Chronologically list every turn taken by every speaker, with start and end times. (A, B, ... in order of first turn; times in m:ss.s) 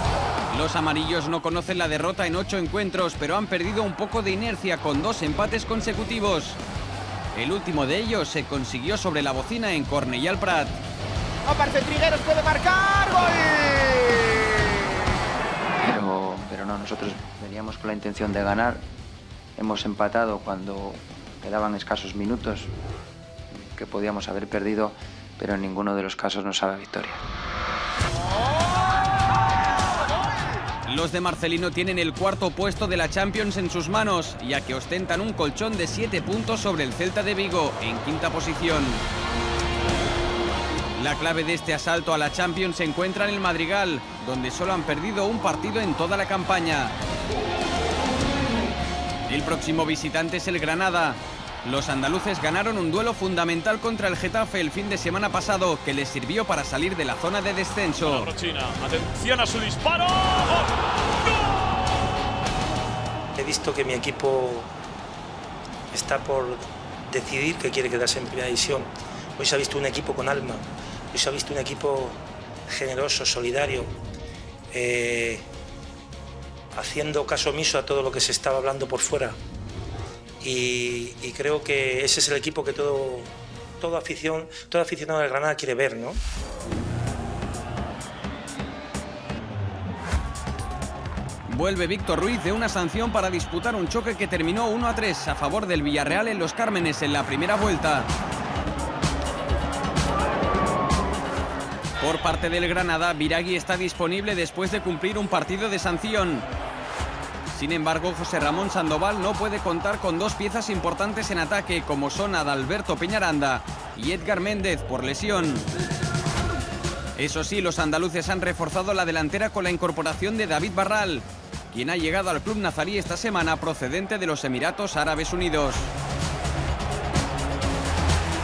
0:00.5-0:06.6 A
0:07.3-0:10.8 A
0:11.5-0:14.3 B
0:15.8-0:18.8 C
0:19.6-0:22.7 C
0:23.6-0:27.2 C
0:30.8-0:39.0 A
0:41.0-0:46.9 A
0:49.3-0:58.3 A
0:58.3-1:00.7 D
1:03.4-1:04.7 E
1:05.9-1:13.9 E
1:14.7-1:15.4 E
1:16.7-1:19.4 E
1:20.4-1:26.2 E
1:31.5-1:38.1 A
1:42.0-1:46.5 A
1:47.5-1:55.7 A
1:57.2-2:05.9 A